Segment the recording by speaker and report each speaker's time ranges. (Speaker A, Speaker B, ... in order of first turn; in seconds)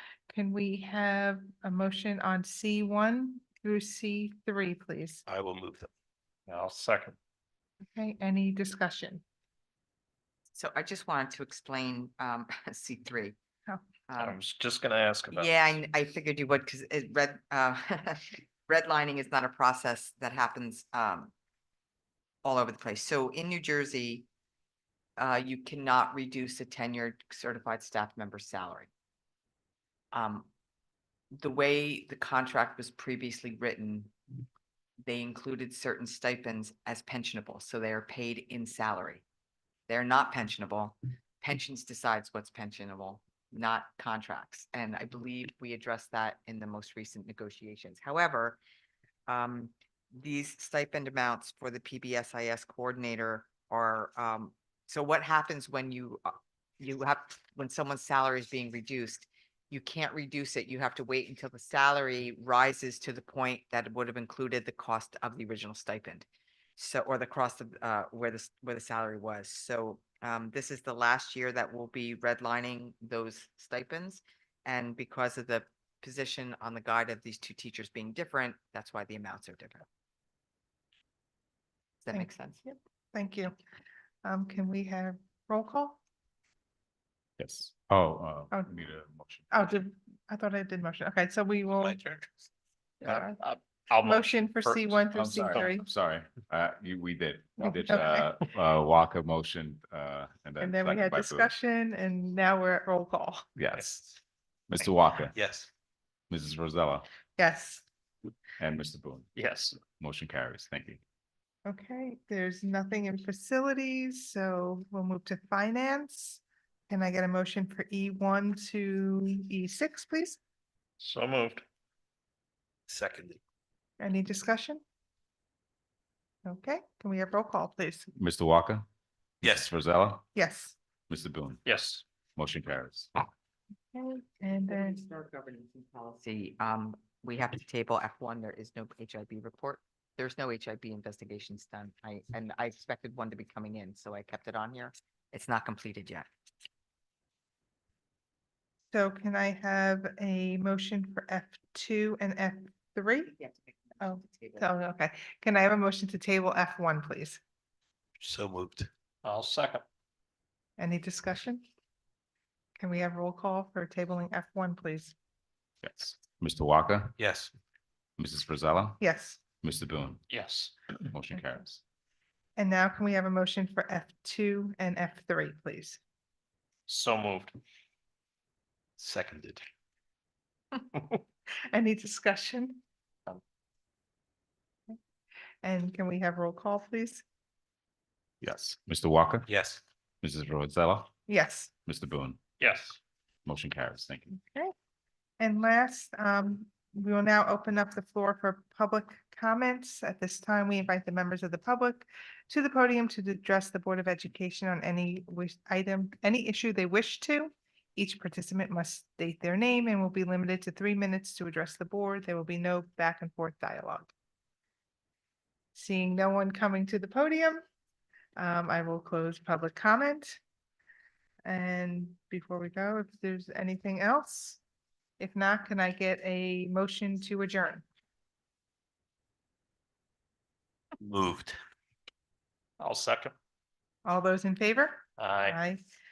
Speaker A: 0.3-5.2, 7.9-9.2, 82.1-83.5, 84.2-86.0, 89.5-92.0, 93.0-93.4, 94.0-95.8, 97.6-98.3, 100.6-103.4, 107.4-107.8, 111.7-120.4, 124.0-124.8, 126.4-128.1, 130.3-130.8, 133.9-135.0, 148.9-153.3, 154.0-157.4, 160.8-161.6, 162.8-165.1, 169.0-169.4, 172.6-176.0, 180.8-181.2, 181.7-182.8, 185.6-187.2, 191.3-191.7, 194.3-194.7, 195.4-214.1, 215.7-217.6, 218.4-220.4, 221.4-224.6, 225.2-227.8, 234.0-235.8
Speaker B: 5.3-5.9, 91.8-92.3, 105.3-105.7, 122.9-123.4, 129.4-129.7, 158.2-158.9, 167.2-167.5, 179.0-179.6, 189.5-189.8, 231.0-231.6
Speaker C: 6.5-7.2, 14.2-15.7, 93.0-95.7, 109.3-109.8, 121.0-121.6, 131.6-132.0, 159.2-159.8, 170.3-170.7, 176.9-177.6, 192.6-193.0, 232.8-233.3, 235.2-235.6
Speaker D: 10.5-13.3, 14.1-14.4, 15.3-21.3, 22.4-24.3, 25.2-28.9, 30.1-30.5, 31.4-34.1, 35.0-39.2, 39.9-48.6, 49.3-66.2, 66.8-79.8, 82.0-82.6, 134.7-146.3, 154.2-154.6
Speaker E: 87.4-89.8, 95.1-101.5, 103.5-104.2, 104.7-105.3, 106.3-107.1, 108.6-109.3, 110.0-111.0, 128.1-128.8, 129.4-130.2, 131.1-131.6, 132.3-133.1, 165.8-167.1, 168.2-169.0, 169.6-170.2, 171.1-171.8, 188.4-189.5, 190.2-191.1, 191.8-192.4, 193.4-194.3